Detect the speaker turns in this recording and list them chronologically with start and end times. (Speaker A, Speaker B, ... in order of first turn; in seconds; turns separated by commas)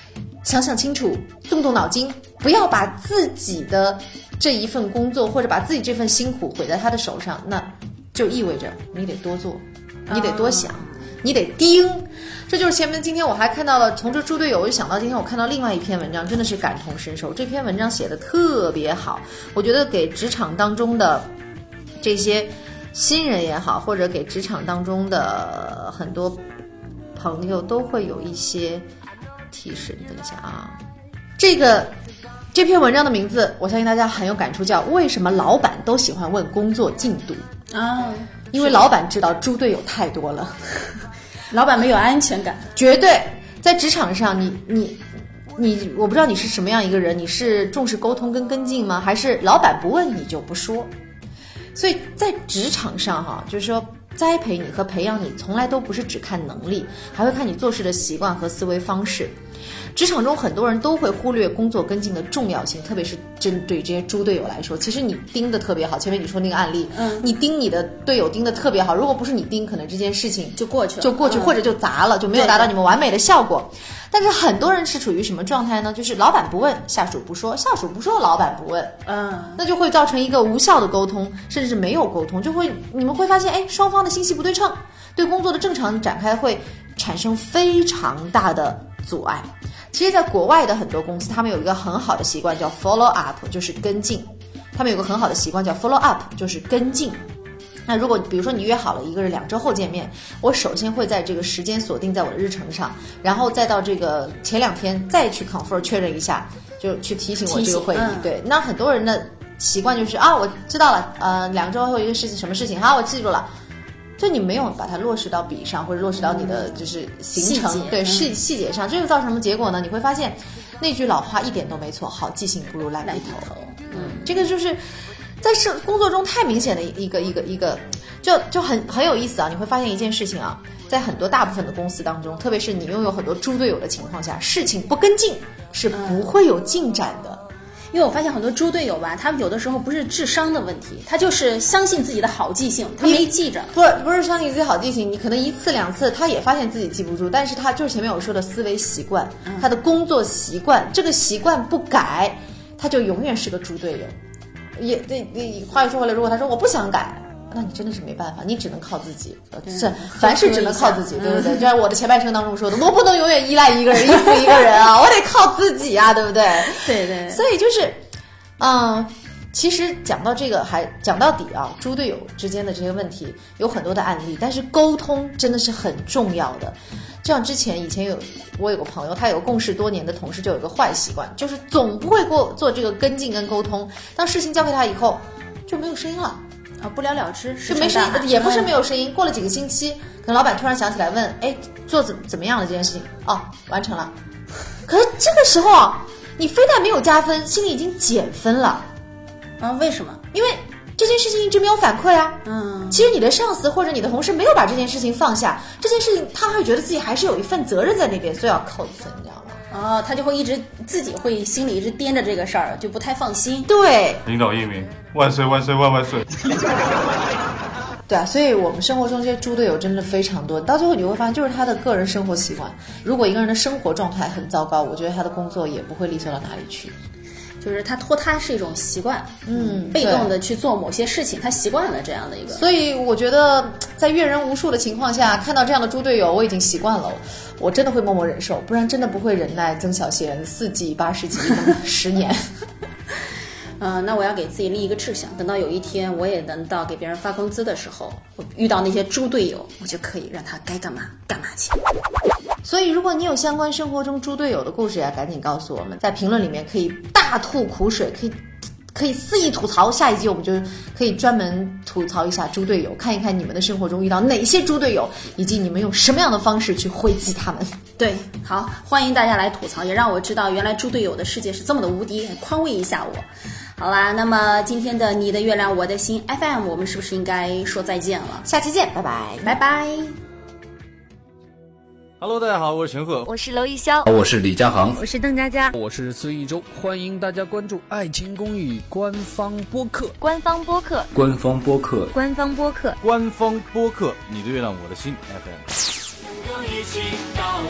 Speaker A: 0.4-21.3, Speaker B: 10.1-11.0, Speaker A: 22.0-26.4, Speaker A: 27.1-28.9, Speaker A: 29.5-30.8, Speaker A: 31.4-31.9, Speaker A: 32.5-37.5, Speaker B: 37.7-38.9, Speaker A: 38.5-40.6, Speaker B: 41.5-42.7, Speaker A: 42.8-50.9, Speaker A: 51.8-59.4, Speaker A: 60.0-79.0, Speaker B: 66.9-67.3, Speaker B: 70.5-71.6, Speaker B: 72.3-72.7, Speaker B: 79.1-79.6, Speaker A: 79.6-97.2, Speaker A: 97.9-113.5, Speaker B: 107.5-108.3, Speaker A: 114.2-124.8, Speaker B: 117.3-118.3, Speaker B: 123.0-124.3, Speaker A: 125.4-137.4, Speaker B: 135.9-136.3, Speaker B: 137.9-143.7, Speaker A: 143.0-154.2, Speaker A: 154.8-168.0, Speaker B: 159.7-161.7, Speaker B: 166.8-167.4, Speaker A: 168.6-186.4, Speaker B: 186.8-188.8, Speaker A: 187.7-194.1, Speaker A: 194.9-198.9, Speaker B: 199.6-200.2, Speaker A: 200.3-209.6, Speaker B: 202.4-203.1, Speaker B: 209.7-213.7, Speaker A: 213.7-214.2, Speaker C: 214.3-216.2, Speaker A: 218.1-226.9, Speaker B: 227.6-232.7, Speaker A: 229.5-230.4, Speaker A: 232.5-242.4, Speaker B: 243.8-251.8, Speaker A: 252.6-258.4, Speaker A: 258.9-267.8, Speaker B: 268.0-278.5, Speaker A: 278.4-279.6, Speaker B: 279.4-280.2, Speaker C: 282.2-283.3, Speaker D: 283.3-284.1, Speaker E: 284.1-285.0, Speaker D: 285.0-285.7, Speaker F: 285.7-290.2, Speaker D: 290.2-291.1, Speaker E: 291.1-292.2, Speaker D: 292.1-293.0, Speaker C: 293.0-295.6